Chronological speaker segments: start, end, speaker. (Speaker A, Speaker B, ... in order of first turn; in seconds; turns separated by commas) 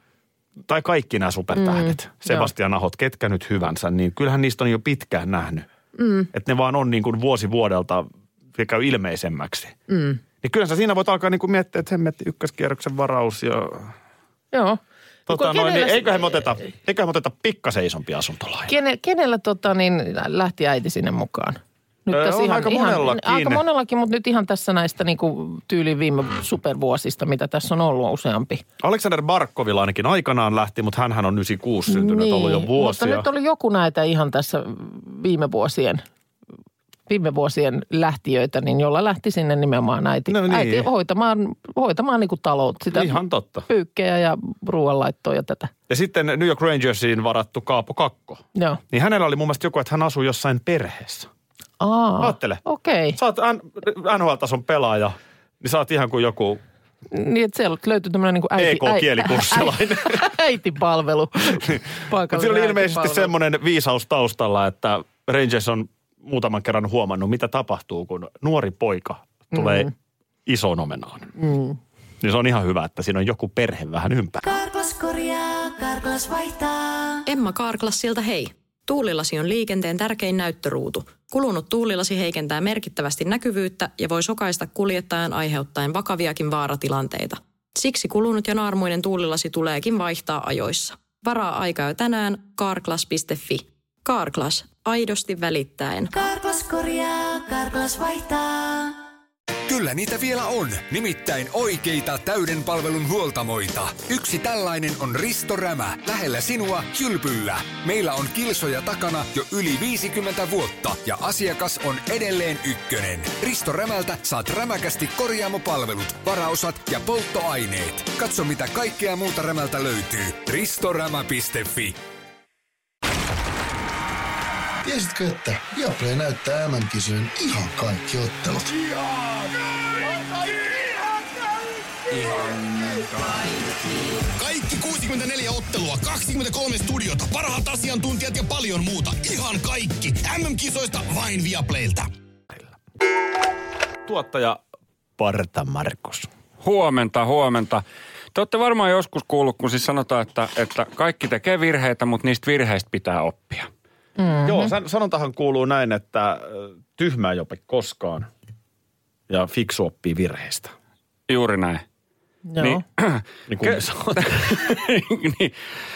Speaker A: 0.7-5.7, Speaker B: 1.6-2.5, Speaker B: 6.0-6.3, Speaker A: 6.3-9.8, Speaker B: 9.9-10.2, Speaker A: 10.4-13.9, Speaker B: 14.5-16.5, Speaker A: 15.3-18.7, Speaker B: 18.7-28.6, Speaker A: 22.1-23.6, Speaker A: 28.8-33.3, Speaker B: 31.9-36.0, Speaker B: 37.1-45.7, Speaker A: 40.3-40.9, Speaker A: 42.9-43.7, Speaker A: 45.9-51.3, Speaker B: 48.5-48.8, Speaker B: 51.8-53.2, Speaker A: 52.2-52.6, Speaker A: 53.1-56.6, Speaker B: 57.1-63.3, Speaker A: 58.6-60.3, Speaker A: 61.6-69.9, Speaker B: 69.5-69.9, Speaker A: 70.5-71.3, Speaker B: 71.4-71.8, Speaker A: 72.2-74.6, Speaker C: 74.4-77.2, Speaker D: 77.3-96.1, Speaker C: 96.1-99.0, Speaker E: 99.7-122.0, Speaker F: 124.8-128.8, Speaker G: 134.4-142.1, Speaker A: 144.1-144.6, Speaker A: 145.2-146.3, Speaker H: 146.6-147.8, Speaker H: 148.3-153.7, Speaker B: 154.2-154.7, Speaker A: 154.4-158.3, Speaker A: 159.3-160.7, Speaker H: 161.3-161.8, Speaker B: 162.5-162.8, Speaker H: 162.6-165.5, Speaker A: 163.5-164.6